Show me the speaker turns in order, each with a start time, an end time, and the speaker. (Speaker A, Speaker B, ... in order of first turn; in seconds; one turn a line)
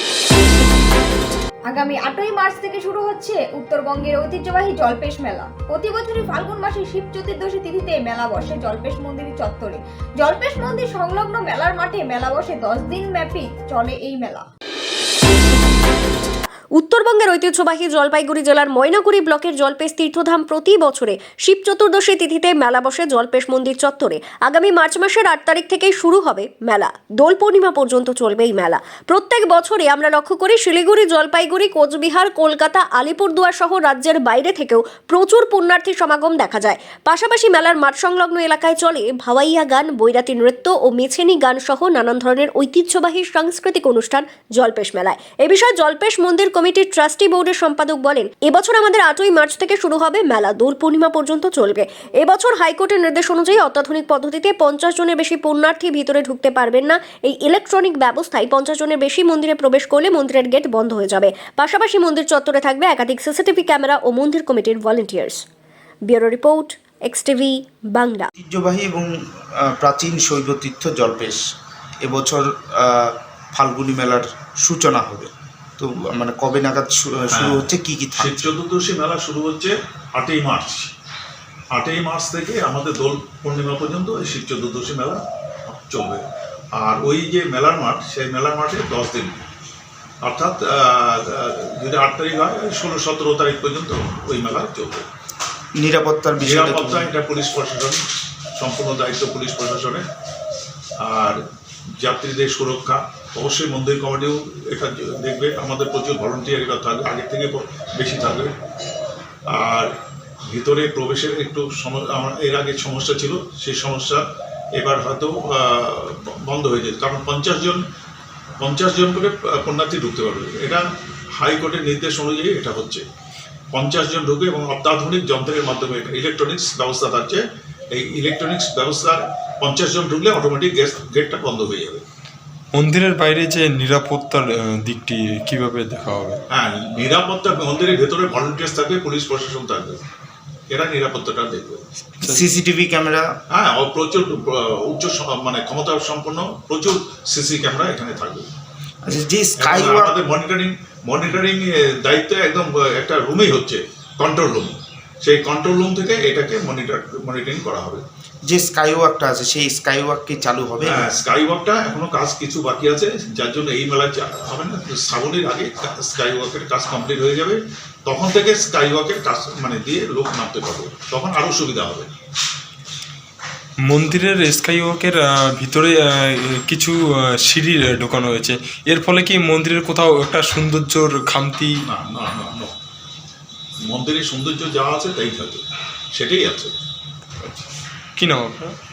Speaker A: 1.7-14.5
Speaker B: 16.8-65.4
Speaker B: 66.1-68.3
Speaker C: 68.3-71.4
Speaker C: 72.0-78.5
Speaker D: 77.3-80.9
Speaker D: 81.7-86.2
Speaker D: 86.8-89.4
Speaker D: 90.2-95.0
Speaker C: 95.8-97.1
Speaker D: 96.4-98.0
Speaker D: 98.5-100.0
Speaker D: 101.0-101.4
Speaker D: 102.0-108.5
Speaker D: 109.5-109.9
Speaker D: 110.5-114.2
Speaker D: 114.8-117.8
Speaker D: 118.6-123.0
Speaker D: 123.7-132.0
Speaker E: 132.8-136.4
Speaker D: 136.5-140.0
Speaker D: 140.7-141.8
Speaker C: 142.2-143.2
Speaker D: 143.5-148.5
Speaker C: 149.1-150.1
Speaker D: 149.6-158.0
Speaker C: 158.5-161.1
Speaker D: 160.8-172.1
Speaker E: 173.8-181.7
Speaker D: 181.9-182.7
Speaker D: 183.8-185.6
Speaker D: 186.2-186.7
Speaker E: 188.2-188.7